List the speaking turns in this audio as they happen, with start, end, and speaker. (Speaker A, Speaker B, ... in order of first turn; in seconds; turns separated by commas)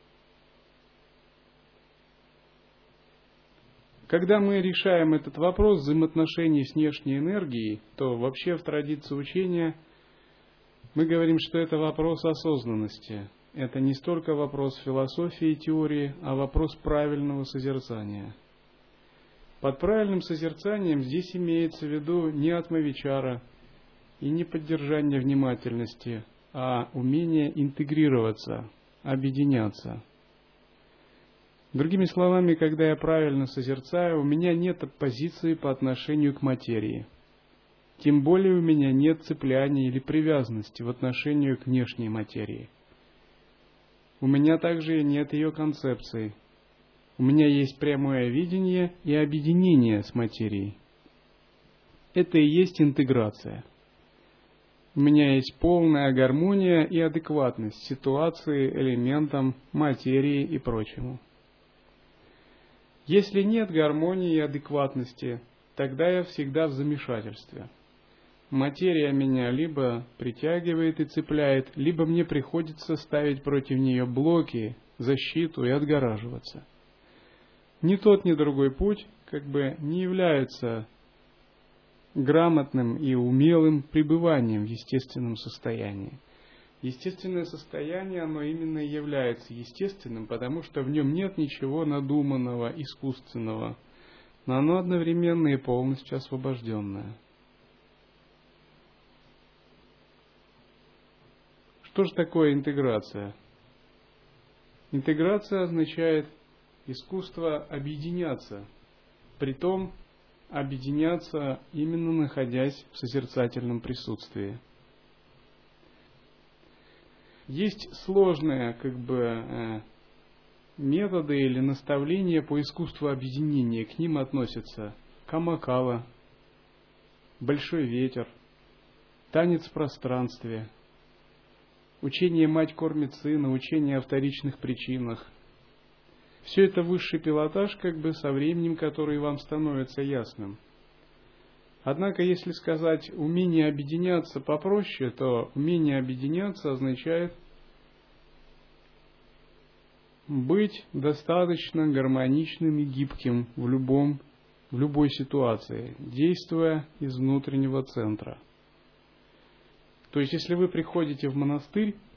Speaker A: 4.1-9.8, Speaker A: 10.9-18.3, Speaker A: 19.6-23.4, Speaker A: 24.2-30.0, Speaker A: 31.7-37.1, Speaker A: 38.0-42.7, Speaker A: 44.2-46.3, Speaker A: 47.2-50.8, Speaker A: 52.1-53.6, Speaker A: 54.9-61.2, Speaker A: 63.0-67.7, Speaker A: 68.5-76.7, Speaker A: 77.8-80.9, Speaker A: 82.1-86.2, Speaker A: 86.8-93.8, Speaker A: 94.4-97.2, Speaker A: 101.8-103.3, Speaker A: 104.9-106.3, Speaker A: 106.8-108.7, Speaker A: 109.4-109.9, Speaker A: 110.5-114.6, Speaker A: 117.5-119.8, Speaker A: 120.8-126.1, Speaker A: 127.4-128.3, Speaker A: 129.3-130.7, Speaker A: 132.0-135.3, Speaker A: 136.4-140.6, Speaker A: 141.8-147.3, Speaker A: 150.3-158.4, Speaker A: 160.1-162.0